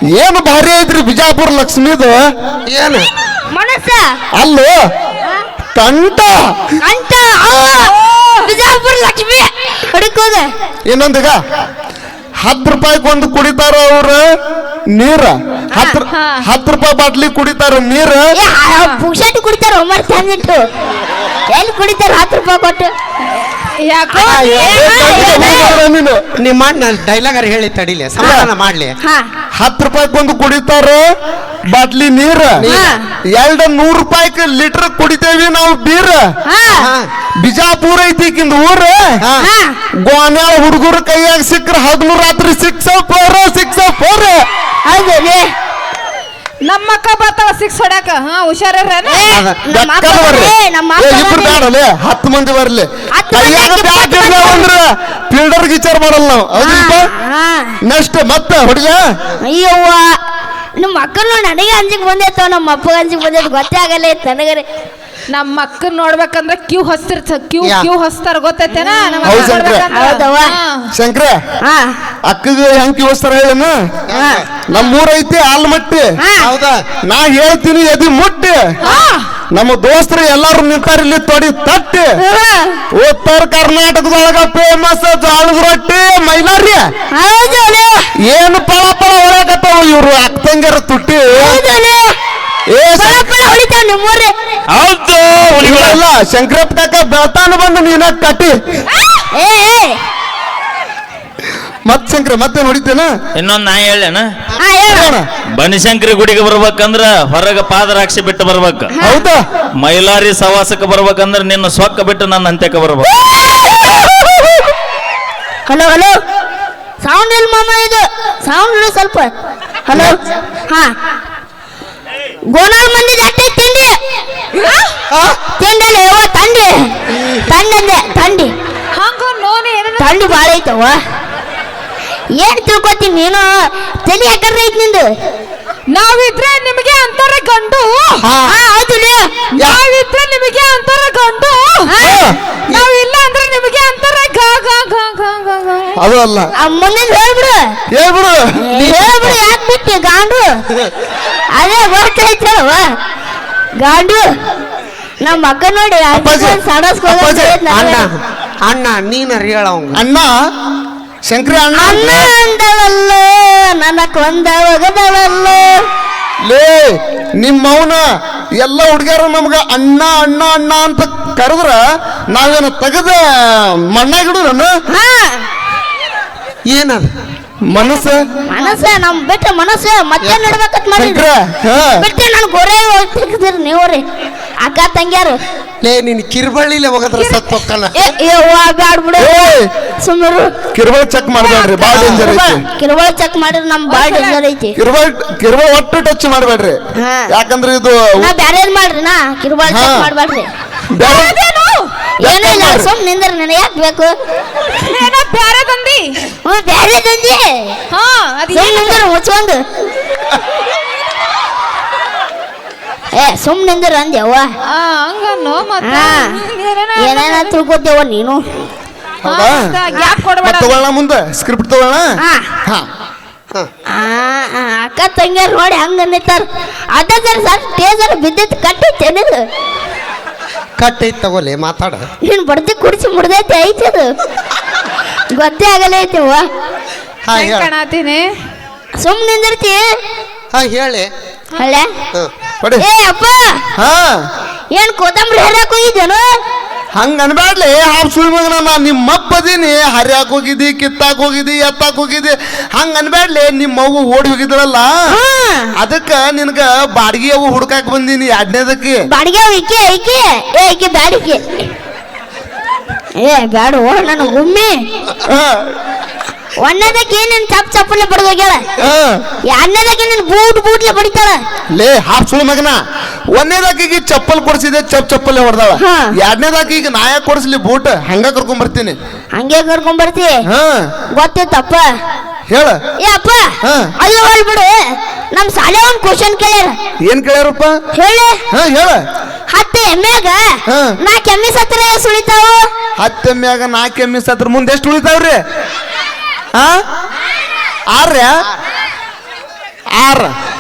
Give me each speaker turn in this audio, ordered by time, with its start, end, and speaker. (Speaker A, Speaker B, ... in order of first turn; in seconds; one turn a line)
Speaker A: 0.1-2.3
Speaker B: 2.7-3.1
Speaker C: 3.5-4.2
Speaker A: 4.3-4.8
Speaker A: 5.8-6.5
Speaker C: 6.8-10.5
Speaker D: 7.9-8.3
Speaker A: 10.9-11.4
Speaker A: 12.4-14.4
Speaker A: 14.9-18.3
Speaker C: 15.8-16.0
Speaker D: 16.1-16.4
Speaker C: 18.4-20.6
Speaker C: 21.5-22.9
Speaker D: 23.9-24.9
Speaker C: 24.1-25.8
Speaker B: 24.2-25.6
Speaker A: 24.6-26.3
Speaker B: 26.4-29.0
Speaker A: 28.2-28.5
Speaker C: 29.0-29.3
Speaker A: 29.6-31.1
Speaker A: 31.7-32.6
Speaker B: 32.6-32.9
Speaker C: 32.7-33.0
Speaker A: 33.4-36.3
Speaker C: 36.5-36.9
Speaker B: 36.8-37.1
Speaker A: 37.4-39.4
Speaker C: 39.4-39.8
Speaker A: 40.0-44.5
Speaker C: 44.9-45.5
Speaker D: 46.6-49.4
Speaker C: 49.0-51.6
Speaker B: 49.3-49.6
Speaker A: 49.6-57.1
Speaker C: 53.1-54.7
Speaker C: 56.6-57.8
Speaker A: 57.8-59.1
Speaker C: 59.5-60.1
Speaker C: 60.8-64.7
Speaker D: 65.3-70.9
Speaker B: 67.6-67.9
Speaker C: 68.7-70.6
Speaker A: 69.2-69.9
Speaker A: 70.9-71.4
Speaker C: 71.6-72.0
Speaker A: 72.3-74.0
Speaker B: 74.1-74.5
Speaker C: 74.2-74.5
Speaker A: 74.6-76.1
Speaker C: 76.2-76.5
Speaker B: 76.4-76.9
Speaker A: 77.0-78.7
Speaker D: 78.9-79.2
Speaker A: 79.5-82.1
Speaker C: 82.2-82.8
Speaker A: 82.9-86.9
Speaker C: 87.1-88.1
Speaker A: 88.2-91.6
Speaker C: 91.3-92.1
Speaker A: 92.7-93.3
Speaker C: 93.0-94.3
Speaker E: 94.7-96.0
Speaker A: 95.6-98.6
Speaker C: 99.3-100.0
Speaker A: 101.9-103.1
Speaker E: 103.4-104.3
Speaker C: 104.6-105.1
Speaker A: 104.9-105.3
Speaker E: 105.6-108.9
Speaker C: 109.0-109.3
Speaker A: 109.0-109.4
Speaker E: 109.8-113.1
Speaker C: 113.2-114.5
Speaker C: 115.7-116.2
Speaker C: 117.0-119.3
Speaker C: 119.9-120.2
Speaker C: 122.5-124.0
Speaker D: 124.6-124.9
Speaker C: 125.6-126.9
Speaker C: 127.5-128.5
Speaker D: 128.9-130.4
Speaker C: 130.0-131.0
Speaker C: 132.4-135.1
Speaker D: 135.9-138.3
Speaker B: 138.2-138.6
Speaker C: 138.4-139.3
Speaker D: 139.6-141.9
Speaker C: 141.9-142.3
Speaker A: 142.0-142.4
Speaker D: 142.7-145.9
Speaker A: 146.0-146.5
Speaker C: 146.6-147.8
Speaker A: 147.9-149.4
Speaker C: 148.6-150.5
Speaker C: 151.6-152.8
Speaker C: 153.8-154.3
Speaker C: 155.2-158.1
Speaker A: 156.1-157.6
Speaker B: 157.7-160.0
Speaker A: 159.9-160.3
Speaker A: 161.3-162.3
Speaker C: 161.8-165.8
Speaker A: 166.4-168.0
Speaker A: 168.6-171.8
Speaker A: 172.3-174.7
Speaker C: 174.9-175.5
Speaker B: 176.7-177.1
Speaker A: 177.7-178.2
Speaker C: 178.5-181.3
Speaker D: 178.6-178.9
Speaker B: 180.2-180.5
Speaker A: 181.0-182.1
Speaker C: 182.0-184.0
Speaker C: 184.6-185.4
Speaker B: 185.8-187.9
Speaker C: 187.9-190.5
Speaker A: 189.2-189.7
Speaker A: 190.7-192.6
Speaker C: 191.4-194.8
Speaker B: 191.9-192.2
Speaker D: 193.9-194.4
Speaker A: 194.8-198.3
Speaker C: 197.0-197.3
Speaker C: 198.2-200.5
Speaker A: 199.7-200.1
Speaker A: 200.9-201.4
Speaker D: 201.0-201.9
Speaker C: 202.2-204.1
Speaker A: 202.2-202.9
Speaker D: 204.8-206.2
Speaker C: 206.4-207.8
Speaker D: 207.9-209.0
Speaker C: 208.5-209.6
Speaker C: 213.1-214.5
Speaker D: 214.7-217.6
Speaker C: 215.8-216.4
Speaker C: 217.0-218.4
Speaker A: 219.2-219.8
Speaker D: 219.2-220.8
Speaker A: 220.4-222.1
Speaker C: 222.2-222.5
Speaker C: 223.9-229.4
Speaker B: 230.8-232.1
Speaker C: 232.2-234.1
Speaker C: 235.3-236.5
Speaker B: 237.2-237.7
Speaker D: 237.3-238.3
Speaker C: 239.0-239.8
Speaker B: 240.5-241.1
Speaker C: 241.6-241.9
Speaker C: 242.8-243.6
Speaker A: 243.8-244.2
Speaker C: 244.7-246.3
Speaker A: 247.0-254.9
Speaker C: 255.1-255.7
Speaker A: 255.8-259.0
Speaker C: 259.1-261.7
Speaker C: 263.2-264.8
Speaker A: 265.3-265.7
Speaker C: 266.6-268.6
Speaker A: 268.8-269.2
Speaker C: 269.5-271.4
Speaker A: 271.8-272.8
Speaker A: 273.3-279.0
Speaker C: 275.8-276.2
Speaker C: 279.4-280.4
Speaker A: 280.5-280.9
Speaker C: 281.2-281.9
Speaker A: 282.5-282.8
Speaker C: 283.0-286.8
Speaker A: 283.6-283.9
Speaker A: 287.1-287.8
Speaker C: 287.9-288.4
Speaker A: 288.5-289.0
Speaker C: 289.5-292.7
Speaker A: 290.7-290.9
Speaker A: 293.0-295.4
Speaker A: 296.6-296.8
Speaker A: 297.9-298.4
Speaker A: 299.9-300.3